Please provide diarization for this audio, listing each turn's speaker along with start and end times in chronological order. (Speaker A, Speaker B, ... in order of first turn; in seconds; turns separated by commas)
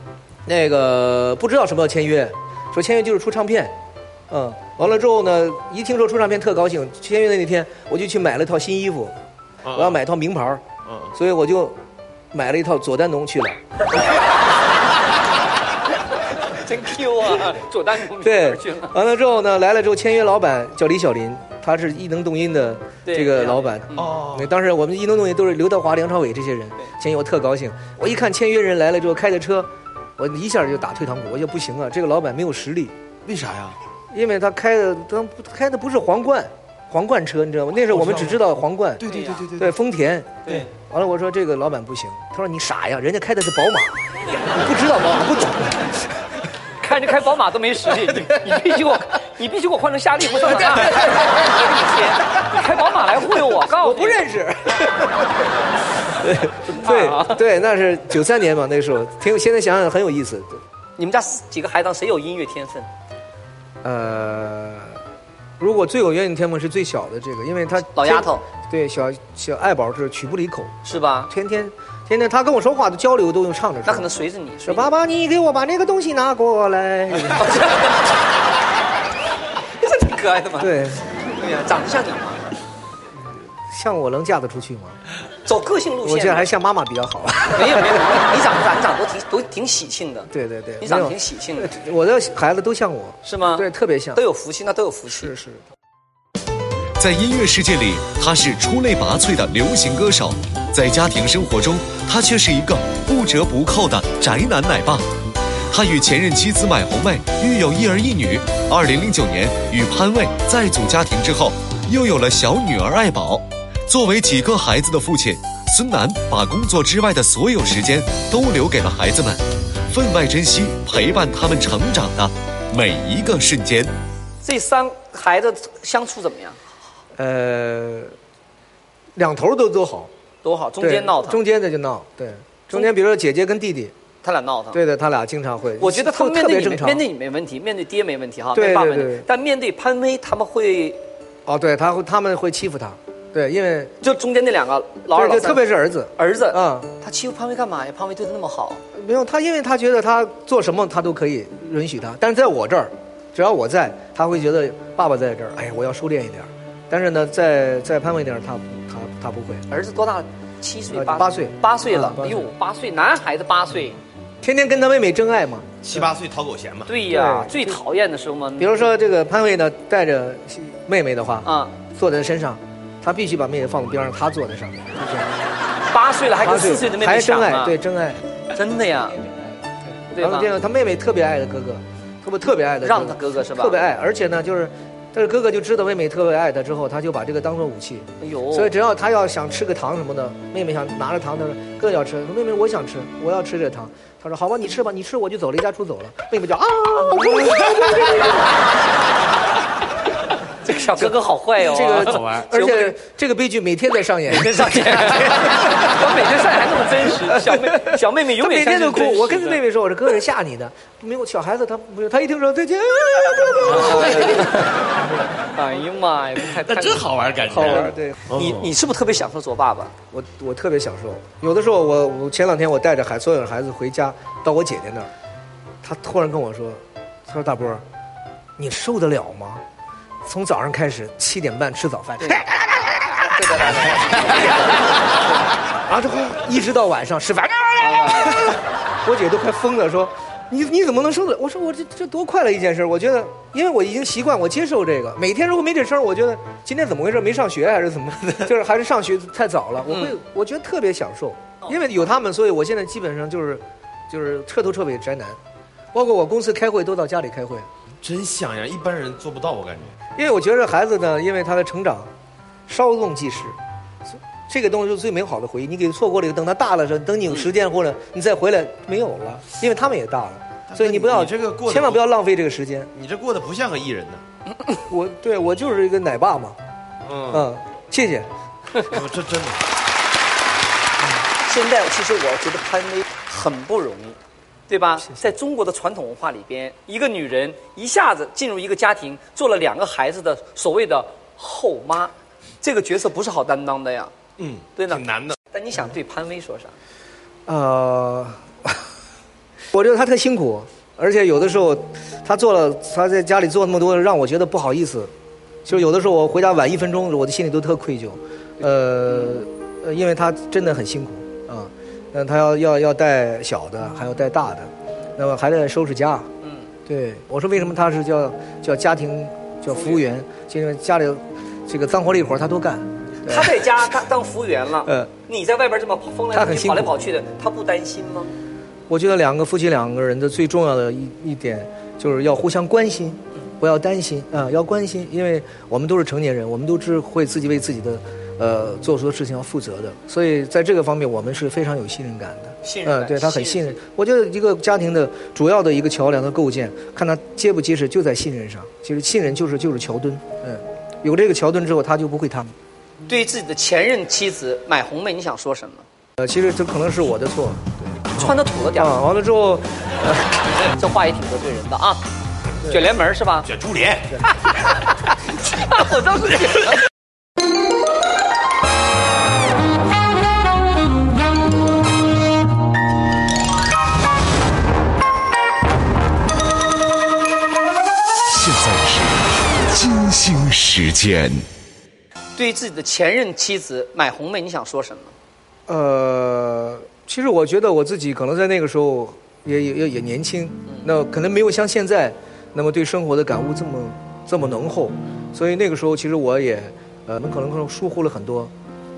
Speaker A: 0.5-3.8, Speaker A: 4.3-9.1, Speaker B: 9.7-10.0, Speaker A: 9.7-11.8, Speaker B: 10.9-11.1, Speaker A: 12.3-13.6, Speaker C: 16.3-19.0, Speaker A: 18.2-32.9, Speaker C: 23.1-24.1, Speaker B: 24.0-24.5, Speaker B: 33.2-33.8, Speaker A: 34.1-46.1, Speaker B: 37.9-38.4, Speaker B: 39.0-39.7, Speaker C: 39.0-39.5, Speaker C: 46.8-54.2, Speaker A: 50.7-51.3, Speaker A: 53.7-55.3, Speaker A: 56.1-60.6, Speaker C: 56.7-57.4, Speaker C: 61.0-62.9, Speaker A: 63.8-65.0, Speaker A: 65.6-70.7, Speaker C: 67.9-68.5, Speaker C: 70.8-71.3, Speaker A: 71.3-74.1, Speaker C: 73.9-74.9, Speaker A: 74.7-77.7, Speaker C: 77.4-78.1, Speaker C: 79.8-82.5, Speaker A: 80.6-81.0, Speaker A: 83.7-85.0, Speaker C: 85.4-86.5, Speaker A: 86.0-88.1, Speaker C: 87.5-90.3, Speaker A: 90.3-94.2, Speaker C: 90.8-91.8, Speaker C: 93.2-95.3, Speaker A: 95.1-95.6, Speaker D: 97.0-105.1, Speaker D: 105.7-123.9, Speaker C: 124.4-126.6, Speaker A: 127.2-128.1, Speaker A: 129.2-130.1, Speaker C: 130.4-131.4, Speaker A: 130.8-133.9, Speaker C: 134.2-134.8, Speaker A: 134.7-137.1, Speaker C: 135.8-141.0, Speaker A: 138.5-139.3, Speaker A: 141.5-143.9, Speaker C: 144.0-148.8, Speaker A: 145.1-146.9, Speaker A: 148.9-159.6, Speaker C: 159.7-164.0, Speaker A: 160.9-162.5, Speaker A: 164.4-166.1, Speaker B: 165.8-166.9, Speaker C: 166.9-168.9, Speaker A: 167.1-167.8, Speaker A: 168.6-175.4, Speaker C: 171.4-171.8, Speaker C: 175.9-177.8, Speaker A: 176.4-178.2, Speaker C: 178.5-179.2, Speaker C: 180.1-180.5, Speaker A: 180.2-198.5, Speaker C: 182.8-183.8, Speaker C: 188.2-188.7, Speaker C: 200.6-203.0, Speaker A: 201.0-205.5, Speaker C: 204.3-209.6, Speaker A: 207.2-215.2, Speaker C: 213.6-214.8, Speaker C: 215.5-219.9, Speaker B: 216.6-218.7, Speaker A: 217.4-218.2, Speaker A: 220.1-225.1, Speaker A: 225.8-227.8, Speaker A: 228.6-229.6, Speaker A: 230.2-232.5, Speaker C: 232.2-232.5, Speaker C: 233.2-235.3, Speaker A: 235.9-255.4, Speaker C: 237.8-238.4, Speaker C: 249.9-250.2, Speaker A: 255.9-257.7, Speaker B: 258.0-259.9, Speaker A: 260.2-262.1, Speaker A: 262.7-263.6, Speaker A: 264.5-272.9, Speaker B: 270.7-272.1, Speaker B: 272.9-274.2, Speaker A: 274.8-276.6, Speaker B: 277.1-277.5, Speaker A: 277.3-278.3, Speaker B: 278.8-279.6, Speaker C: 281.4-284.2, Speaker C: 284.7-294.1, Speaker B: 294.4-295.4, Speaker C: 294.8-296.8, Speaker A: 297.5-298.8, Speaker A: 299.7-305.1, Speaker A: 305.6-316.3, Speaker C: 316.4-316.7, Speaker A: 316.9-323.9, Speaker C: 319.7-320.0, Speaker C: 323.3-328.3, Speaker A: 324.9-325.1, Speaker A: 326.3-326.9, Speaker A: 328.9-352.5, Speaker C: 342.6-343.8, Speaker C: 353.1-355.9, Speaker A: 356.2-358.2, Speaker C: 358.1-359.0, Speaker A: 358.8-360.3, Speaker C: 360.6-362.0, Speaker C: 362.7-363.5, Speaker B: 363.4-364.2, Speaker C: 364.3-366.8, Speaker D: 378.3-381.4, Speaker C: 382.4-385.1, Speaker A: 385.7-398.5